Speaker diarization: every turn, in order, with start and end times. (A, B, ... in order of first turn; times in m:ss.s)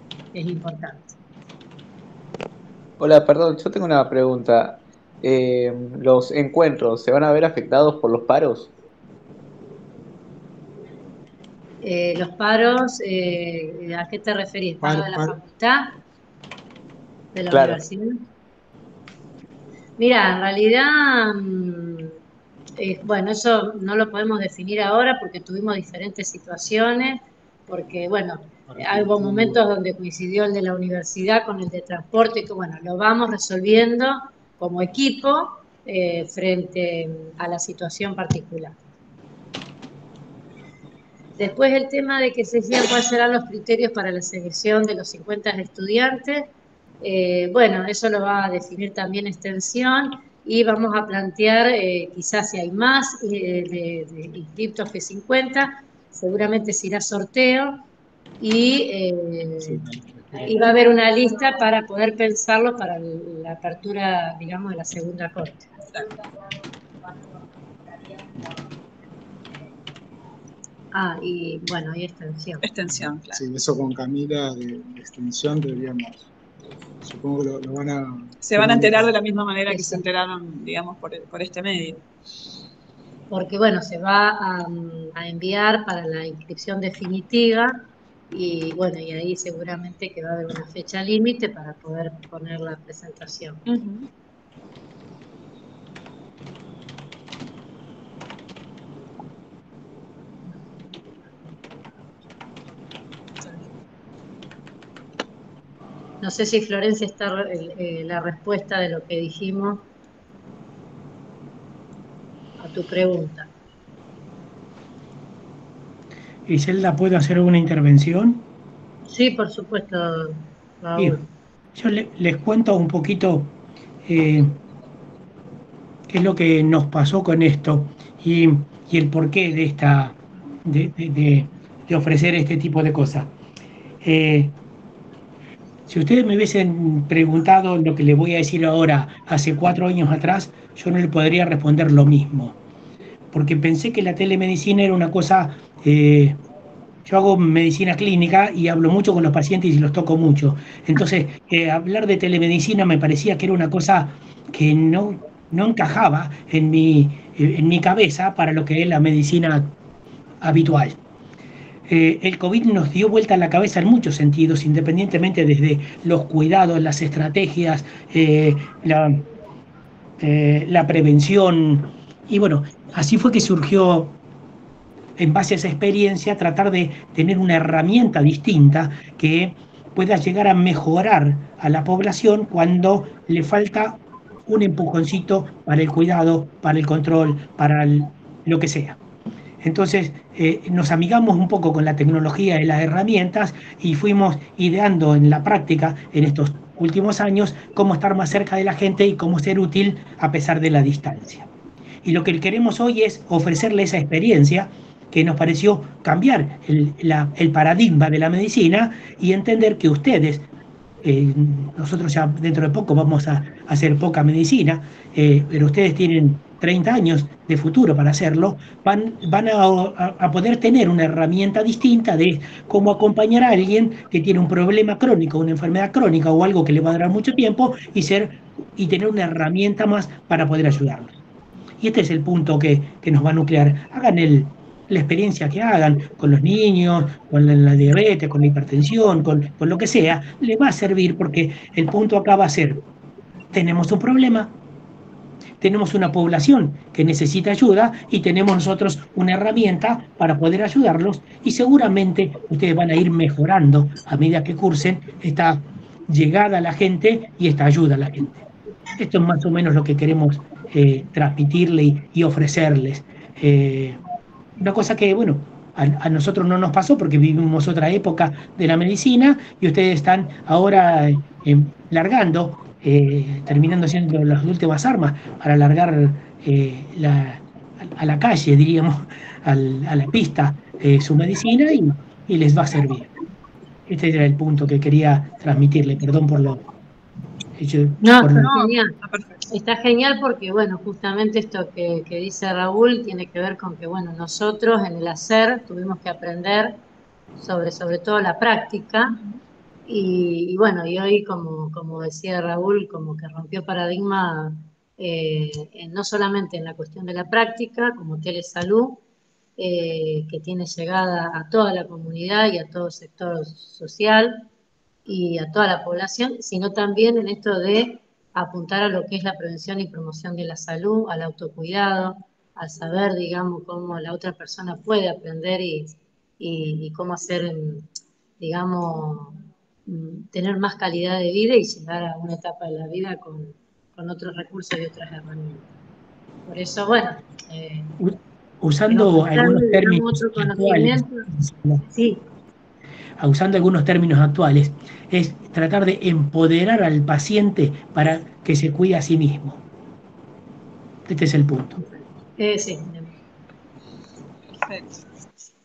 0:00.3-0:01.2 A
0:03.0-0:08.7 B
0:11.8-0:16.0 A
0:14.8-0:15.4 C
0:17.3-0:18.2 A
0:17.5-0:17.8 B
0:20.0-0:22.2 A
0:22.8-0:38.8 A
0:28.7-0:29.6 C
0:41.4-0:57.8 A
0:58.4-0:59.8 A
0:59.6-1:00.6 C
1:00.4-1:05.7 A
1:05.8-1:06.1 D
1:10.9-1:12.7 A
1:12.6-1:13.4 D
1:12.9-1:16.3 C
1:17.0-1:19.1 C
1:18.4-1:22.0 D
1:19.7-1:20.1 A
1:23.3-1:27.8 A
1:28.3-1:33.6 A
1:33.7-1:34.1 D
1:46.2-1:49.9 A
1:52.6-1:53.5 A
1:56.5-1:58.5 E
1:59.1-2:01.3 A
2:01.8-2:04.6 E
2:06.1-2:13.3 E
2:14.0-2:14.6 E
2:15.9-2:22.6 E
2:23.3-2:26.4 E
2:27.1-2:39.8 E
2:40.4-2:41.0 E
2:41.9-2:49.2 E
2:50.2-2:54.2 E
2:55.2-3:09.0 E
3:09.6-3:21.5 E
3:22.0-3:30.5 E
3:31.0-3:51.2 E
3:51.8-4:02.8 E
4:03.5-4:04.6 E
4:05.6-4:18.4 E
4:19.0-4:24.0 E
4:24.6-4:43.1 E
4:43.9-4:46.6 E
4:47.6-4:48.5 E
4:48.0-4:48.9 A
4:48.4-4:49.5 D
4:49.5-4:56.8 A
4:57.4-4:59.2 A
4:59.1-4:59.4 D
4:59.9-5:09.0 A
5:09.6-5:14.5 A
5:15.1-5:27.9 A
5:28.4-5:35.7 A
5:36.5-5:38.0 A
5:38.0-5:41.8 E
5:38.9-5:41.3 A
5:41.8-5:42.2 A
5:43.2-5:49.6 E
5:51.1-5:51.8 E
5:51.8-5:53.2 A
5:54.5-5:55.0 D